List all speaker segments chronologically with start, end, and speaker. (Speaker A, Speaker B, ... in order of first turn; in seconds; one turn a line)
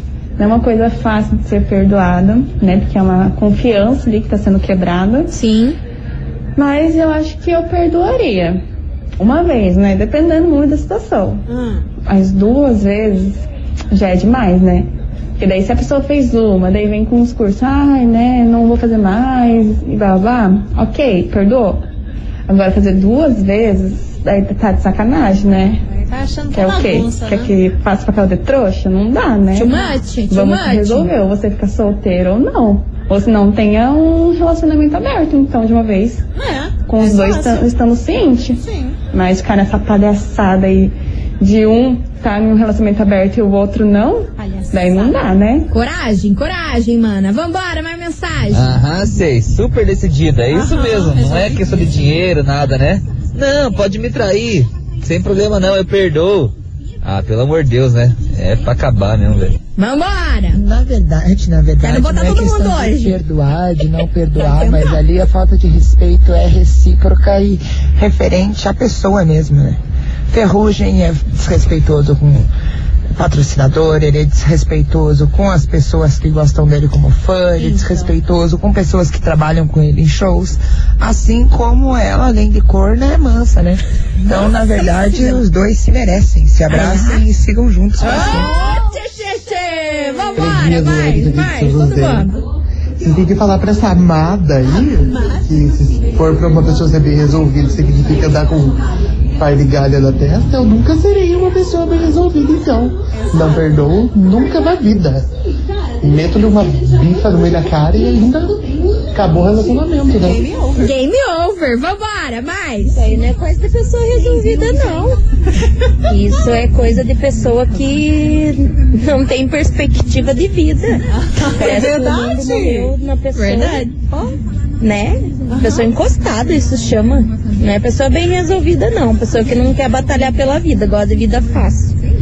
Speaker A: 0.4-5.3
Speaker B: 5.3-5.8
Speaker A: 6.5-8.6
Speaker A: 9.2-11.4
Speaker C: 11.5-11.8
Speaker A: 12.1-21.8
Speaker A: 22.5-25.8
Speaker C: 25.9-27.5
Speaker A: 26.5-36.2
Speaker B: 29.5-31.1
Speaker C: 36.3-37.7
Speaker A: 36.9-45.7
Speaker C: 38.6-39.0
Speaker C: 44.4-45.3
Speaker B: 45.7-48.7
Speaker D: 48.5-59.5
Speaker C: 50.5-52.1
Speaker B: 59.8-60.6
Speaker E: 60.5-72.5
Speaker B: 61.8-63.2
Speaker C: 64.4-65.0
Speaker E: 73.1-88.5
Speaker C: 77.6-78.1
Speaker C: 84.3-85.4
Speaker B: 86.7-87.2
Speaker C: 88.0-88.8
Speaker B: 88.0-92.3
Speaker F: 90.3-92.3
Speaker F: 93.0-98.8
Speaker C: 94.8-95.5
Speaker F: 99.4-105.3
Speaker C: 103.1-103.7
Speaker F: 106.0-110.4
Speaker C: 110.2-110.9
Speaker B: 110.8-113.0
Speaker G: 112.9-115.2
Speaker B: 114.4-114.7
Speaker C: 114.5-114.8
Speaker G: 116.0-123.9
Speaker C: 121.1-122.9
Speaker B: 123.3-123.9
Speaker C: 124.0-124.4
Speaker G: 124.8-132.0
Speaker C: 125.5-125.9